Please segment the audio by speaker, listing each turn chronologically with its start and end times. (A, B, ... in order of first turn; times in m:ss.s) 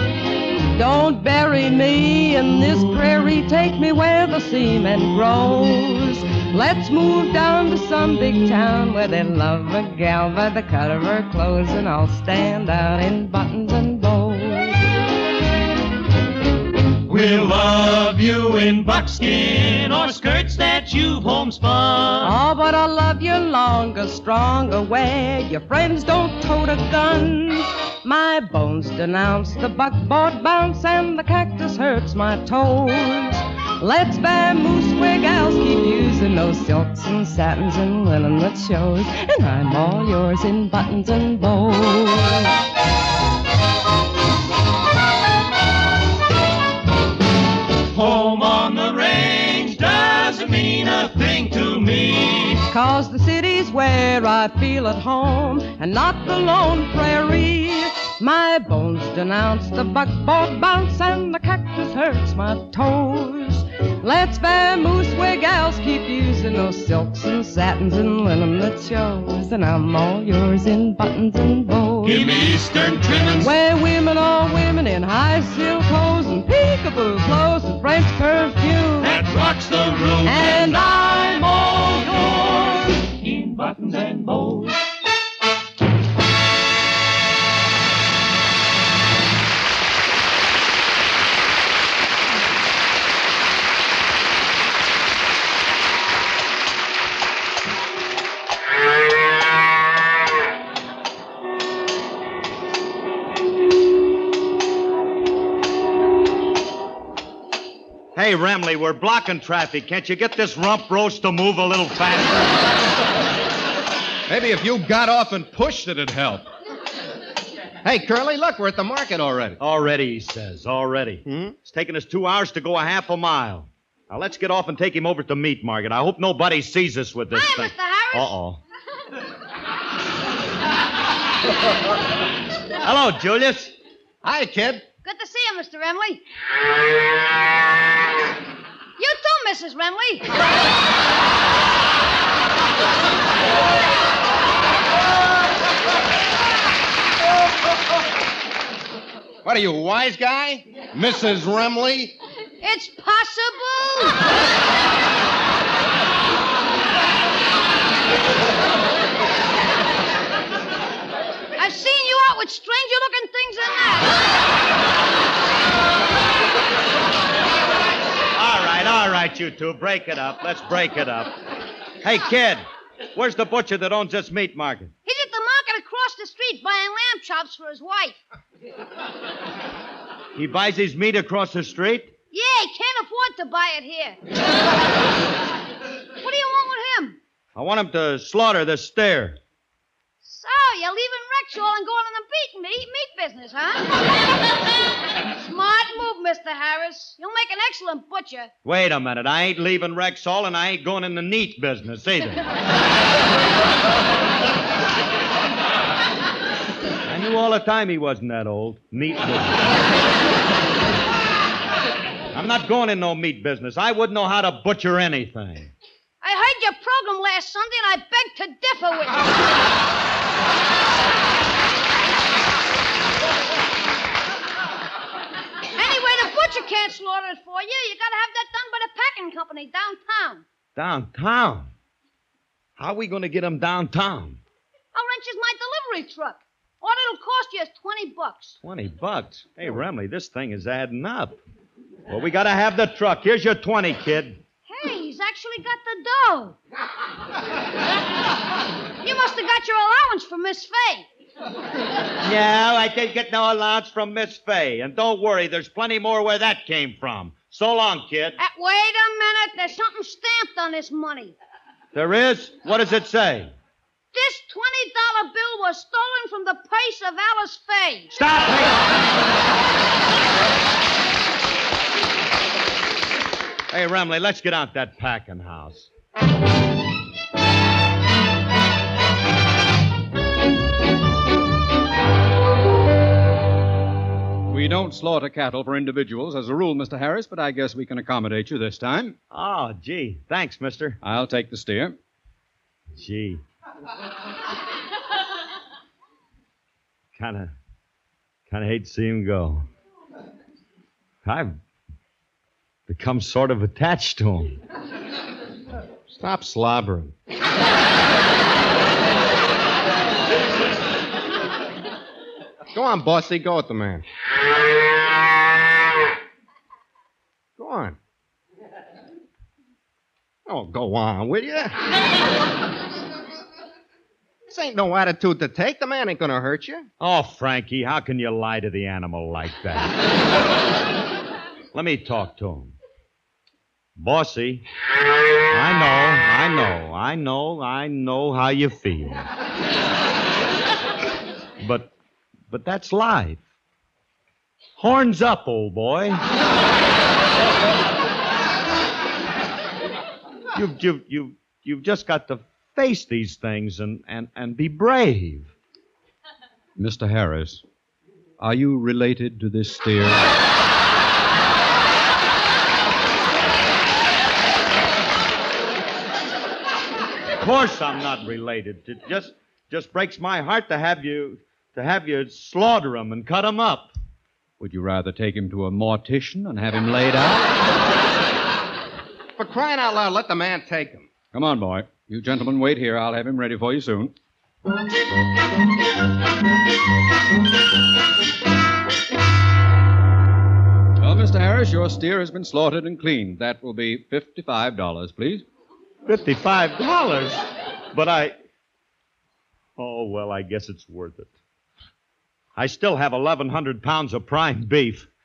0:00.6-0:14.8 A
0:17.0-0:22.3 B
0:22.2-0:42.5 A
0:47.9-0:52.6 B
0:52.7-1:12.4 A
1:12.0-1:13.5 B
1:13.4-1:19.2 A
1:19.0-1:24.8 B
1:20.2-1:20.8 A
1:48.1-1:52.6 C
1:54.3-1:56.5 D
1:57.8-1:59.6 D
1:59.6-2:08.6 C
2:01.2-2:01.5 D
2:07.3-2:08.4 E
2:12.8-2:13.7 C
2:14.2-2:14.8 D
2:15.0-2:16.2 E
2:19.0-2:20.3 E
2:29.4-2:32.2 D
2:32.6-2:34.2 E
2:41.6-2:44.2 E
2:48.3-2:51.3 C
2:52.0-2:54.9 C
2:55.0-2:58.2 E
3:00.3-3:02.1 C
3:02.3-3:04.2 E
3:06.2-3:07.2 E
3:07.6-3:09.4 C
3:10.2-3:14.1 E
3:15.3-3:18.5 E
3:18.6-3:22.4 C
3:27.0-3:29.8 C
3:32.3-3:35.7 C
3:36.2-3:39.3 E
3:45.7-3:50.4 E
3:50.8-3:51.7 C
3:52.8-3:54.4 C
3:54.9-3:58.6 E
3:58.6-4:01.4 C
4:02.1-4:04.4 C
4:04.7-4:06.6 E
4:09.0-4:11.1 E
4:12.2-4:18.4 C
4:18.4-4:21.3 E
4:21.9-4:23.5 C
4:24.1-4:28.1 E
4:28.1-4:28.8 C
4:33.7-4:35.9 C
4:44.5-4:49.2 F
4:49.3-4:51.0 C
4:51.0-4:52.0 F
4:52.9-4:53.4 C
4:57.2-4:57.5 C
4:58.5-4:59.6 C
5:01.2-5:01.6 C
5:02.9-5:04.6 C
5:06.1-5:07.1 D
5:12.7-5:14.0 D
5:17.6-5:18.0 D
5:20.4-5:21.8 D
5:24.5-5:26.9 D
5:27.0-5:29.9 C
5:31.7-5:32.7 C
5:34.0-5:34.6 C
5:35.5-5:39.2 C
5:41.6-5:41.9 C
5:42.5-5:43.4 C
5:44.8-5:46.2 C
5:50.5-5:55.5 C
5:56.8-5:57.6 F
5:58.4-6:00.2 F
6:07.4-6:13.9 C
6:14.6-6:17.5 F
6:19.4-6:21.1 D
6:21.3-6:24.1 F
6:31.0-6:35.4 F
6:36.0-6:37.4 C
6:37.9-6:38.4 C
6:39.8-6:41.3 C
6:42.6-6:45.1 C